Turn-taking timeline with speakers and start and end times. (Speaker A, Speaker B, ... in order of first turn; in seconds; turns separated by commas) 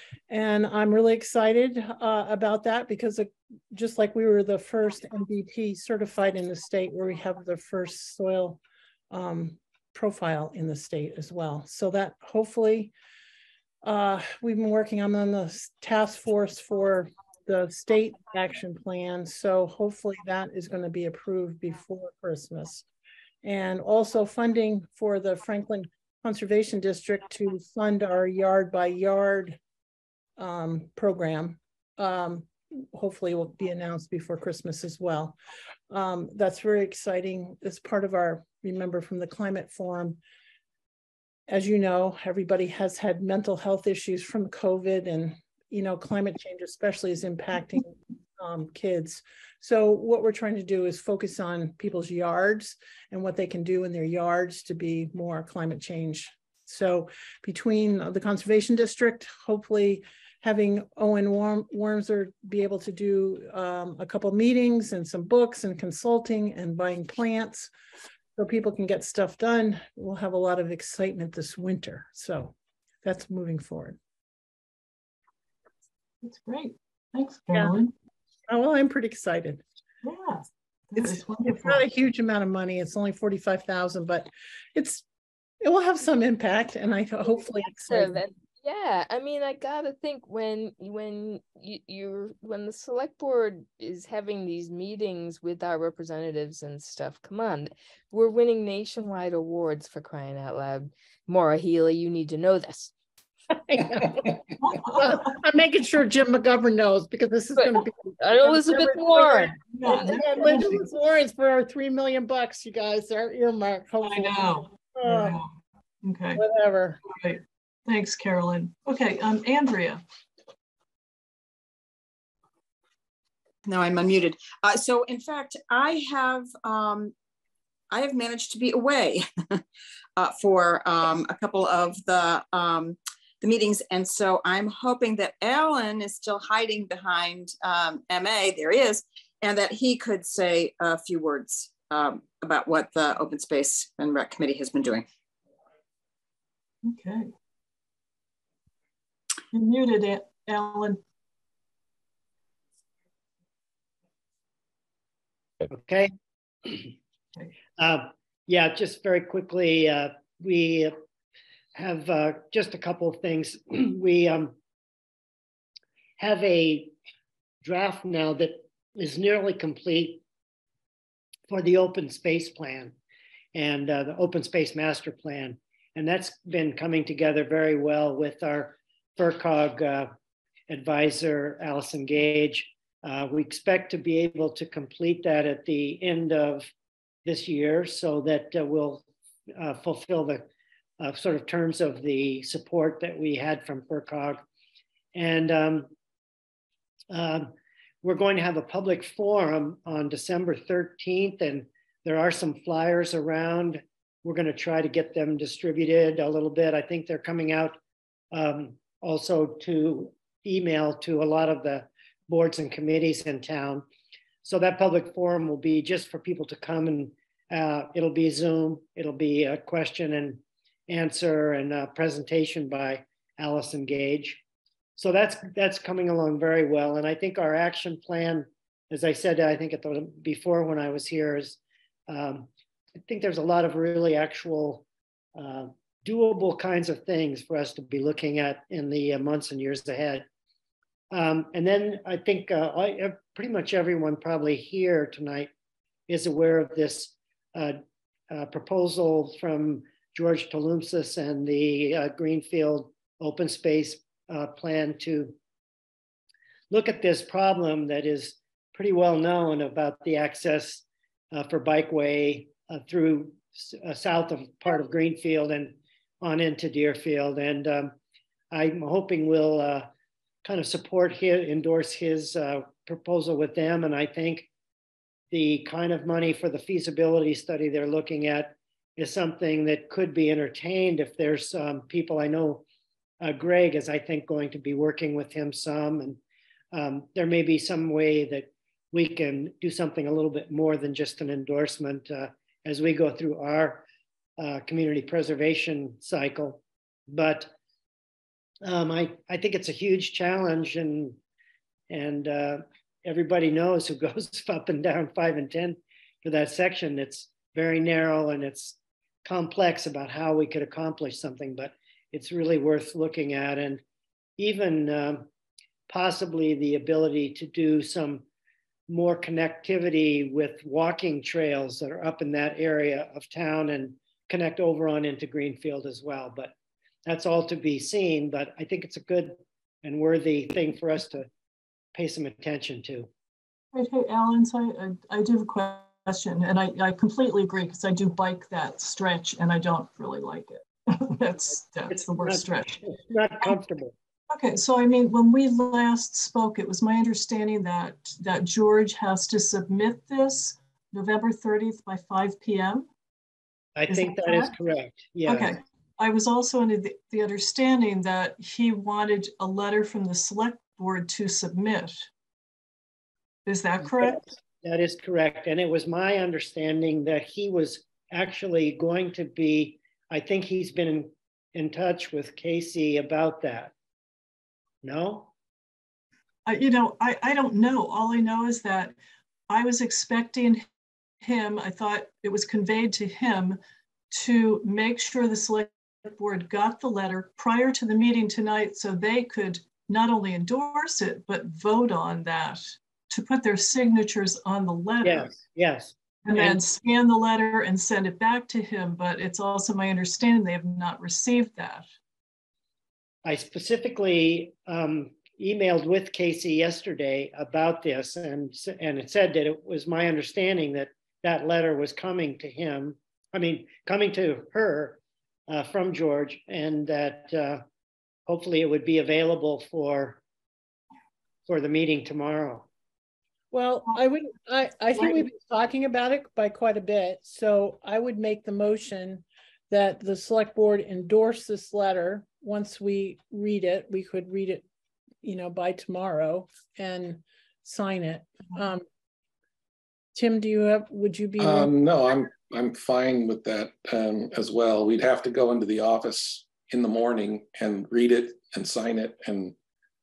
Speaker A: 0.3-12.9, Speaker A: 13.8-22.8, Speaker A: 23.4-29.6, Speaker A: 30.4-35.4, Speaker A: 35.9-40.2, Speaker A: 41.5-67.7, Speaker A: 68.3-74.0, Speaker B: 76.2-77.9, Speaker A: 78.5-79.6, Speaker B: 80.0-81.8, Speaker A: 81.0-85.0, Speaker A: 85.6-88.2, Speaker C: 87.9-102.9, Speaker A: 103.7-115.4, Speaker B: 104.6-105.2, Speaker C: 107.6-109.5, Speaker B: 109.7-110.8, Speaker B: 114.0-116.4, Speaker A: 116.3-117.0, Speaker B: 117.0-120.0, Speaker D: 123.6-127.1, Speaker D: 127.9-129.2, Speaker D: 130.2-145.1, Speaker B: 146.8-147.3, Speaker B: 149.5-151.0, Speaker E: 155.7-156.1, Speaker E: 156.6-156.9, Speaker E: 157.8-161.0, Speaker E: 161.7-164.6, Speaker E: 166.2-167.0, Speaker E: 167.6-170.2, Speaker E: 171.5-172.9, Speaker E: 173.5-180.1, Speaker E: 180.7-186.7, Speaker E: 187.2-190.5, Speaker E: 191.0-194.4, Speaker E: 195.1-195.9, Speaker E: 197.1-207.8, Speaker E: 208.3-213.8, Speaker E: 214.4-224.4, Speaker E: 224.9-232.5, Speaker E: 233.0-234.8, Speaker E: 235.3-240.2, Speaker E: 241.1-245.5, Speaker E: 246.1-247.8, Speaker E: 248.3-255.3, Speaker E: 256.7-267.9, Speaker E: 268.5-269.9, Speaker E: 270.4-274.5, Speaker E: 275.3-282.6, Speaker E: 283.2-286.2, Speaker E: 286.7-293.9, Speaker E: 294.4-297.5, Speaker E: 298.6-301.2, Speaker E: 301.9-313.8, Speaker E: 314.4-315.3, Speaker E: 315.9-318.2, Speaker E: 318.9-326.5, Speaker E: 327.1-331.3, Speaker E: 331.9-333.1, Speaker B: 333.7-343.6, Speaker E: 341.9-343.9, Speaker B: 344.3-352.9, Speaker E: 353.8-355.5, Speaker B: 353.9-354.6, Speaker B: 355.2-362.1, Speaker B: 363.4-364.2, Speaker E: 363.9-373.7, Speaker E: 374.8-375.3, Speaker B: 376.4-378.9, Speaker B: 379.5-380.6, Speaker B: 381.2-383.6, Speaker B: 384.1-395.4, Speaker E: 395.0-396.6, Speaker B: 396.2-401.9, Speaker E: 403.2-417.6, Speaker E: 418.3-420.2, Speaker E: 421.5-422.7, Speaker A: 423.5-434.6, Speaker A: 435.2-438.8, Speaker A: 440.1-441.7, Speaker F: 441.4-449.5